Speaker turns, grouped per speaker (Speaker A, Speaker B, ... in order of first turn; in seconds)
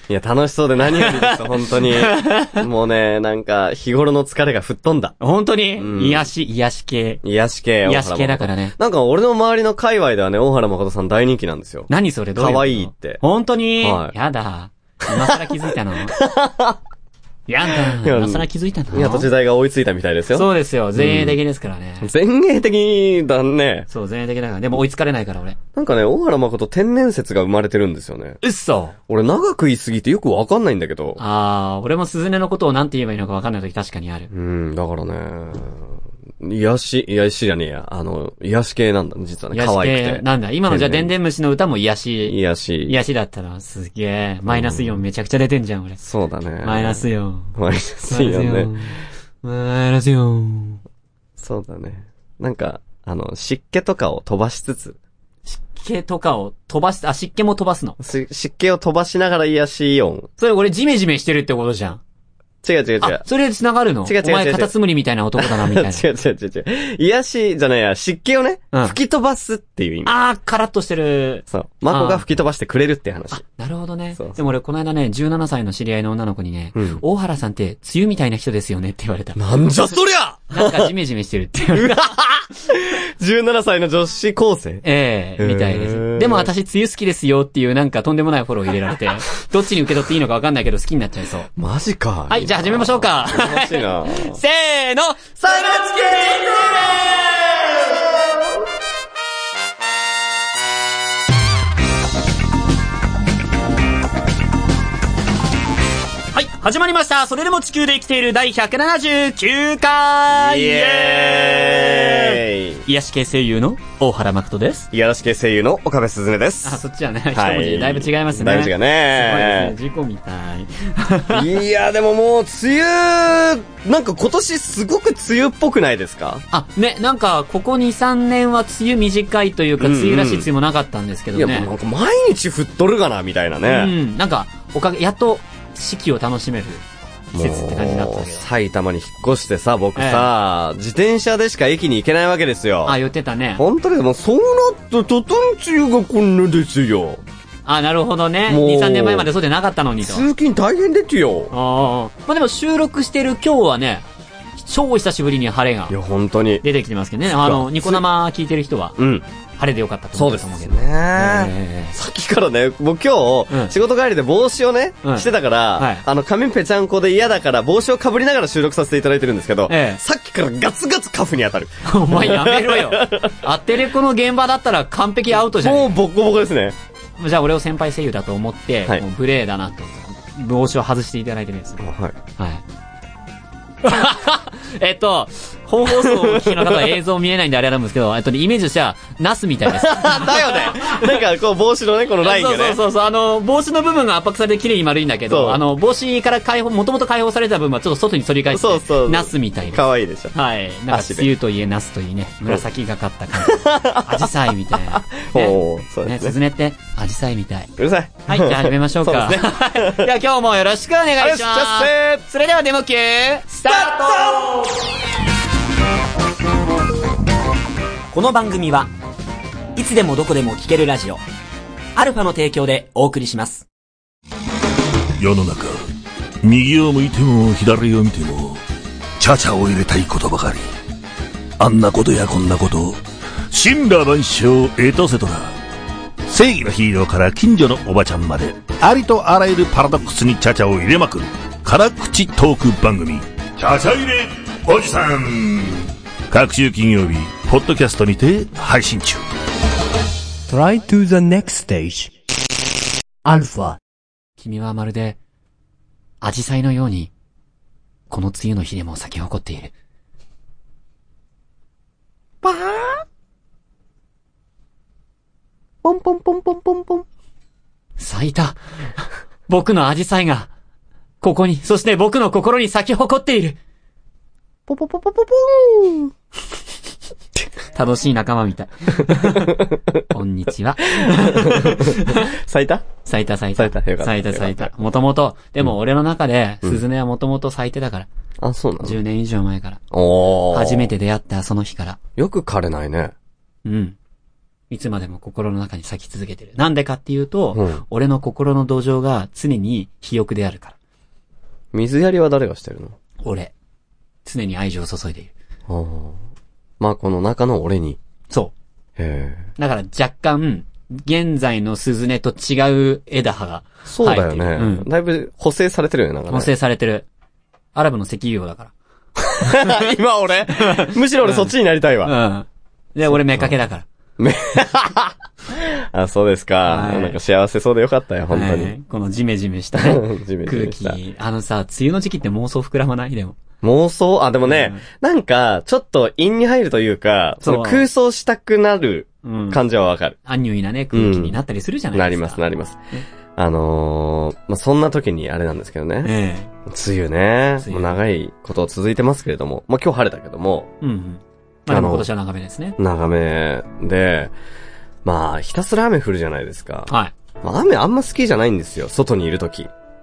Speaker A: 0.1-5.1, 5.8-6.2, 7.2-13.2, 13.8-14.1, 15.1-16.8, 17.7-21.4, 22.0-23.9, 25.8-28.4, 29.1-31.2, 34.3-41.1, 42.3-43.0, 44.5-45.0, 46.0-48.7, 51.4-55.0, 58.0-60.3, 62.6-63.2, 64.0-64.7, 65.4-70.1, 71.5-73.4, 76.7-77.0, 79.4-80.9, 81.7-84.8, 85.4-86.5, 91.6-94.4, 95.4-98.6, 110.3-112.8, 114.9-116.8, 117.3-119.7, 121.3-126.4, 129.8-130.5, 131.3-133.9, 137.3-143.0, 143.6-147.2, 148.5-149.3, 150.0-151.5, 155.9-156.6, 157.3-158.0, 159.0-159.2, 160.1-173.3, 175.6-176.8, 181.8-182.2, 185.8-187.0, 189.7-192.8, 195.3-195.6, 198.5-200.3, 200.9-201.3, 203.4-206.3, 207.8-210.1, 211.2-212.2, 213.6-214.6, 262.4-263.0, 265.8-267.1, 274.7-276.1, 279.1-280.0, 280.9-282.9, 283.5-284.7, 288.4-289.0, 289.9-290.9, 292.2-293.1, 297.5-297.8, 301.7-302.9, 305.7-306.2, 306.8-308.0, 309.0-309.5, 313.9-316.5, 319.2-322.1, 323.1-323.5, 324.2-328.8, 329.7-331.0, 333.6-340.2, 340.9-341.4, 341.9-342.8, 343.4-346.1, 346.7-350.7, 351.7-352.1, 352.8-354.4, 355.1-356.9, 357.4-359.7
Speaker B: 0.9-2.6, 5.2-7.2, 7.8-8.7, 11.9-16.1, 17.5-19.3, 20.3-22.1, 23.9-25.6, 28.4-28.9, 31.2-34.3, 39.5-46.0, 46.6-47.5, 48.1-50.8, 55.5-58.0, 60.4-62.0, 63.0-66.0, 68.7-69.0, 70.0-72.2, 73.3-79.4, 80.5-82.0, 84.8-91.5, 92.3-96.7, 106.3-114.9, 116.6-121.5, 126.5-131.7, 133.7-136.8, 137.3-138.4, 139.9-140.3, 142.8-143.6, 147.7-150.2, 151.5-154.0, 154.6-155.9, 156.6-159.0, 159.6-161.9, 163.5-163.7, 165.0-166.0, 169.7-170.0, 171.8-175.9, 177.2-181.8, 182.4-182.6, 183.8-190.9, 192.2-207.7, 208.3-214.3, 254.4-255.2, 256.2-257.1, 258.1-259.7, 268.0-270.5, 271.2-273.6, 277.7-282.3, 283.1-288.1, 288.8-289.8, 290.5-292.0, 293.6-294.0, 294.7-300.7, 303.2-303.5, 304.2-305.3, 309.6-314.9, 316.3-317.1, 317.8-318.7, 319.4-319.9, 320.6-321.5, 322.0-323.9, 326.6-327.2, 328.3-333.4, 334.4-334.8, 337.4-337.9, 339.2-339.6, 340.2-342.4, 346.0-346.5, 347.6-348.0, 350.8-352.8, 356.9-357.1
Speaker C: 218.1-218.9, 219.8-221.2, 221.9-223.6
Speaker D: 225.2-225.8, 226.4-228.6, 229.2-230.7, 231.6-235.5, 236.3-249.2
Speaker E: 250.5-252.1, 253.2-253.8